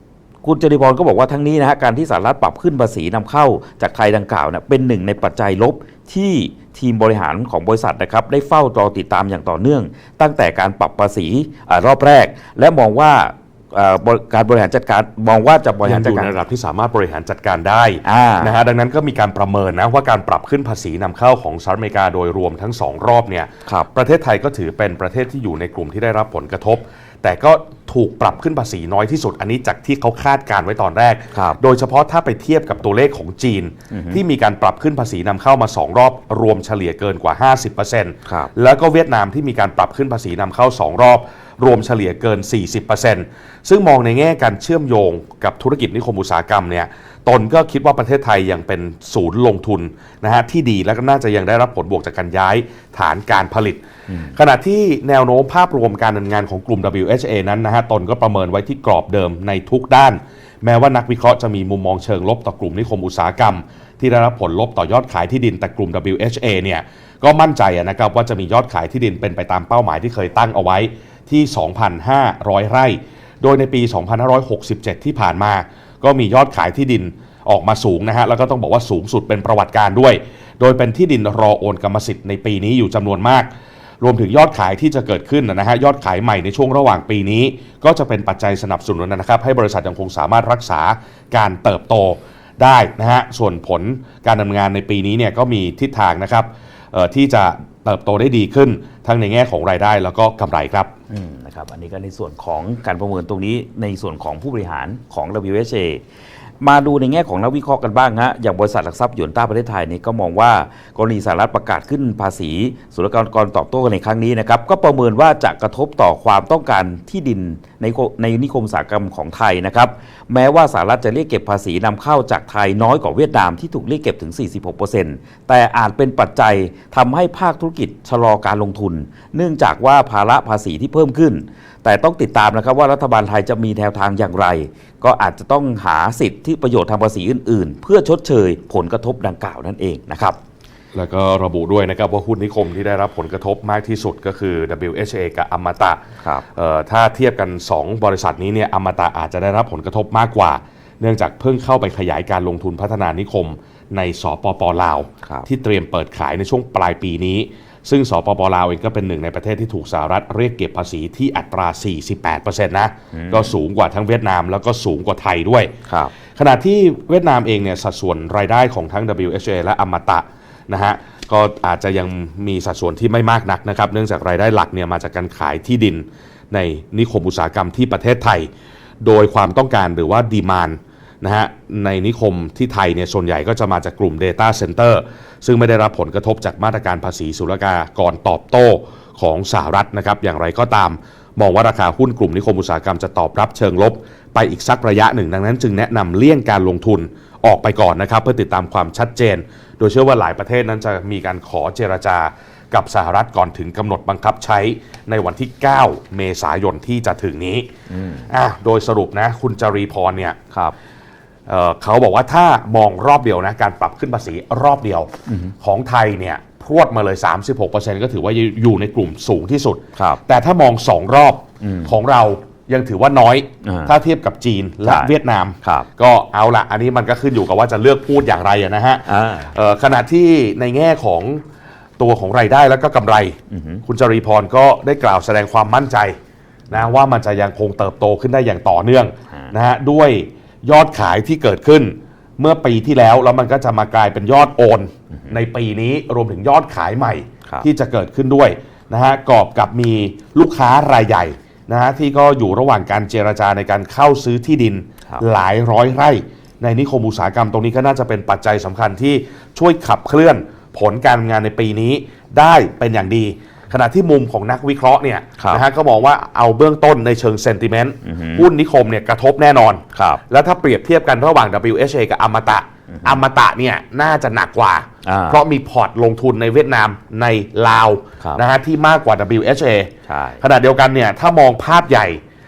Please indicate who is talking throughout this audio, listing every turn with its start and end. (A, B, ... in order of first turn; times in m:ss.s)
0:00.4-0:16.4 A
0:15.8-1:23.5 B
0:18.0-0:18.5 A
0:31.3-0:31.6 A
0:33.9-0:34.2 A
0:54.1-0:54.3 A
1:24.0-1:40.9 B
1:41.1-1:46.0 A
1:46.6-2:20.4 A
2:21.0-2:45.7 B
2:43.1-2:43.5 A
2:45.9-2:46.1 A
2:46.4-2:58.5 B
2:59.0-3:27.7 B
3:27.9-3:28.3 A
3:28.3-3:30.4 B
3:31.5-3:51.4 B
3:35.3-3:35.5 A
3:41.6-3:41.9 A
3:43.6-3:43.9 A
3:44.9-3:45.9 A
3:49.1-3:49.5 A
3:52.0-3:56.2 B
3:53.5-3:53.8 A
3:56.7-4:42.2 B
4:28.0-4:28.5 A
4:29.9-4:30.2 A
4:33.0-4:33.2 A
4:35.0-4:35.4 A
4:40.1-4:40.4 A